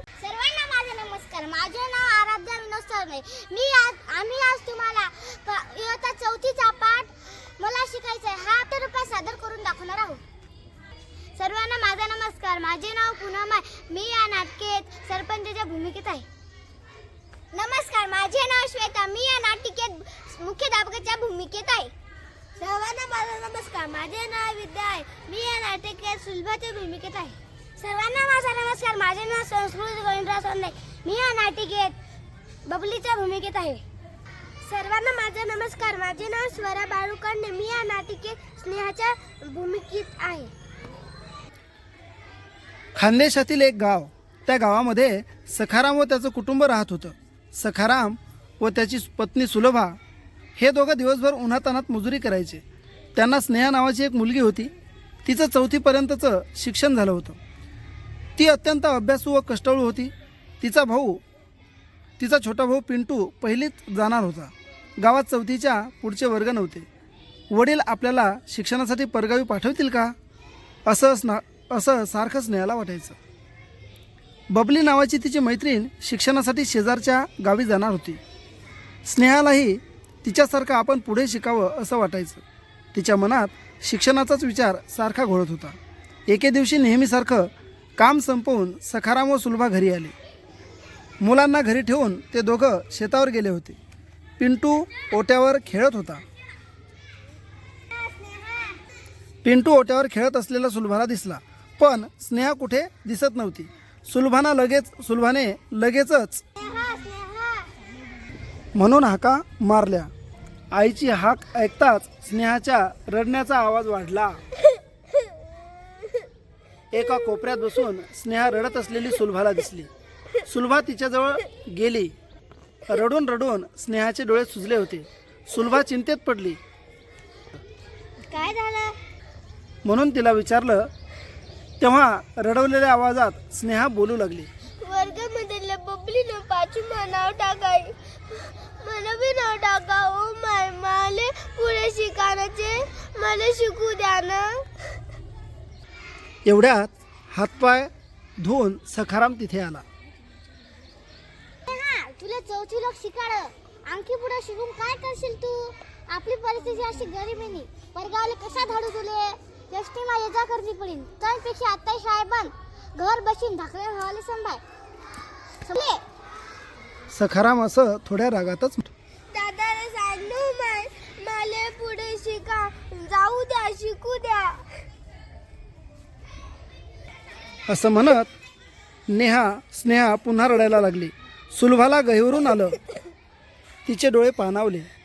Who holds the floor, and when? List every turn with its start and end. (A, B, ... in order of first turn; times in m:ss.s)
0:00.2-0:10.2 A
0:11.4-0:16.2 A
0:17.5-0:21.9 A
0:22.6-0:27.8 B
0:22.6-0:27.2 A
0:27.8-0:31.9 A
0:32.7-0:33.8 A
0:34.6-0:40.5 B
0:43.0-0:50.0 C
0:50.6-0:52.6 C
0:53.2-0:54.7 C
0:55.2-0:57.4 C
0:58.4-1:01.2 C
1:02.2-1:06.8 C
1:07.5-1:10.1 C
1:10.8-1:13.2 C
1:14.5-1:18.2 C
1:19.0-1:22.4 C
1:22.9-1:25.8 C
1:26.3-1:30.1 C
1:31.2-1:33.8 C
1:34.4-1:36.2 C
1:37.9-1:38.8 A
1:39.4-1:46.4 C
1:46.5-1:47.7 A
1:48.7-1:50.1 C
1:50.7-1:54.4 C
1:56.9-1:59.9 C
2:00.4-2:02.1 C
2:02.9-2:06.6 C
2:08.3-2:08.9 A
2:09.8-2:10.9 C
2:11.8-2:14.5 C
2:14.8-2:24.6 B
2:26.4-2:29.8 C
2:31.7-2:44.6 A
2:45.6-2:46.0 A
2:47.1-2:48.9 C
2:49.3-2:54.6 B
2:57.7-2:58.3 C
2:59.1-3:02.8 C
3:03.8-3:04.9 C